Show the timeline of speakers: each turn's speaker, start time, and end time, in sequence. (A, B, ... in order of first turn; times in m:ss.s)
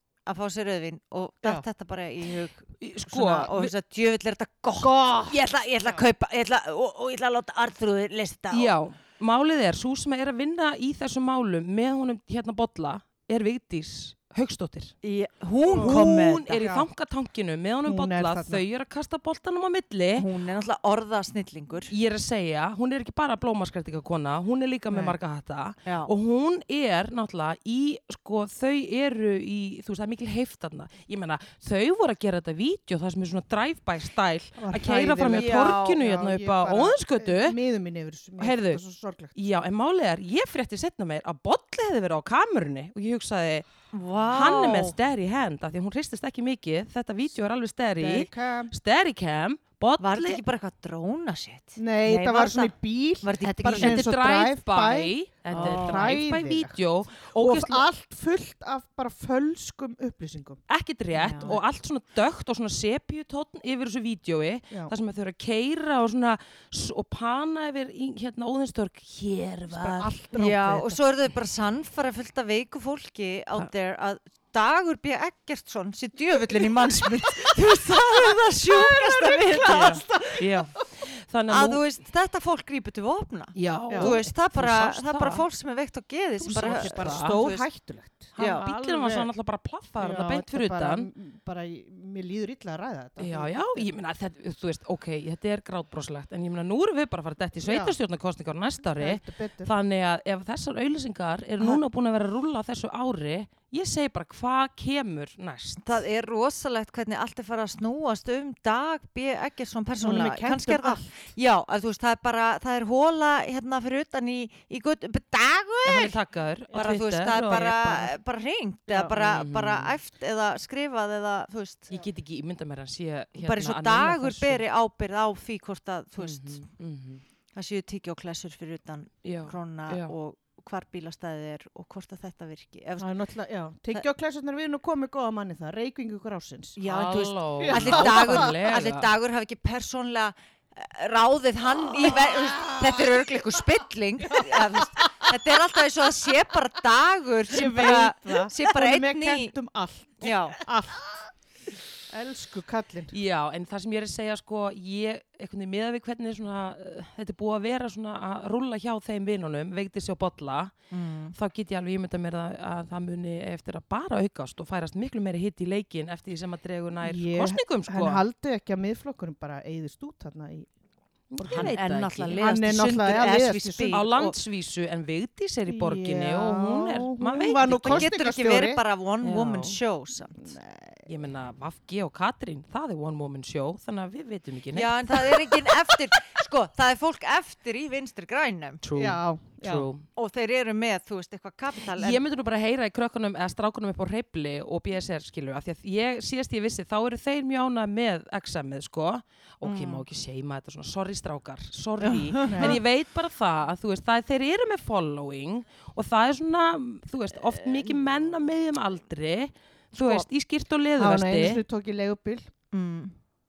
0:00.3-0:08.7 A
0:02.8-0:03.7 B
0:04.8-0:06.0 C
0:08.5-0:15.0 B
0:15.0-0:16.7 A
0:15.7-0:16.9 C
0:15.8-0:20.3 B
0:17.8-0:18.6 C
0:20.2-0:21.9 A
0:21.9-0:37.6 B
0:24.9-0:25.2 C
0:25.8-0:26.1 A
0:34.6-0:39.3 C
0:35.3-0:36.0 A
0:38.4-0:38.8 B
0:39.3-0:43.7 B
0:43.9-0:45.0 A
0:44.3-0:50.4 B
0:48.0-0:48.7 C
0:50.0-0:54.1 A
0:51.8-0:56.8 C
0:53.7-0:57.8 B
0:55.5-0:56.1 A
0:57.4-1:00.6 C
1:00.7-1:10.2 B
1:01.2-1:01.6 A
1:01.2-1:01.6 C
1:09.7-1:11.0 C
1:10.3-1:20.5 A
1:16.7-1:20.6 C
1:20.4-1:21.8 B
1:21.5-1:27.6 A
1:23.6-1:25.4 B
1:23.9-1:24.6 C
1:26.4-1:29.3 C
1:26.5-1:27.4 B
1:28.4-1:28.7 A
1:28.4-1:31.1 B
1:30.0-1:33.9 C
1:33.2-1:45.9 B
1:37.6-1:38.0 C
1:39.0-1:39.7 C
1:45.8-1:56.2 A
1:50.0-1:51.2 C
1:55.8-1:58.1 B
1:56.7-2:01.9 A
1:59.1-2:00.0 B
2:01.9-2:04.6 B
2:03.4-2:06.7 A
2:06.2-2:07.2 B
2:07.6-2:13.1 A
2:09.2-2:10.1 B
2:13.0-2:16.8 C
2:16.8-2:29.5 A
2:16.9-2:19.1 B
2:17.6-2:18.6 C
2:22.0-2:23.2 C
2:24.2-2:25.3 C
2:27.5-2:31.3 C
2:30.2-2:30.6 A
2:32.1-2:33.1 C
2:33.1-2:40.7 B
2:40.9-2:41.4 A
2:41.4-2:48.2 B
2:47.0-2:50.7 C
2:51.3-2:53.1 B
2:51.4-2:51.8 C
2:51.5-2:54.4 A
2:52.4-2:54.0 C
2:53.8-2:58.1 B
2:55.7-2:58.8 C
2:57.9-3:00.5 A
2:59.2-2:59.8 B
3:00.4-3:01.1 C
3:01.1-3:05.7 B
3:04.7-3:08.8 A
3:08.8-3:10.0 B
3:09.0-3:09.9 C
3:10.2-3:12.2 A
3:12.0-3:31.6 B
3:19.6-3:20.0 A
3:22.0-3:22.8 A
3:22.5-3:22.8 C
3:30.0-3:30.2 A
3:31.0-3:32.5 C
3:32.7-3:33.2 A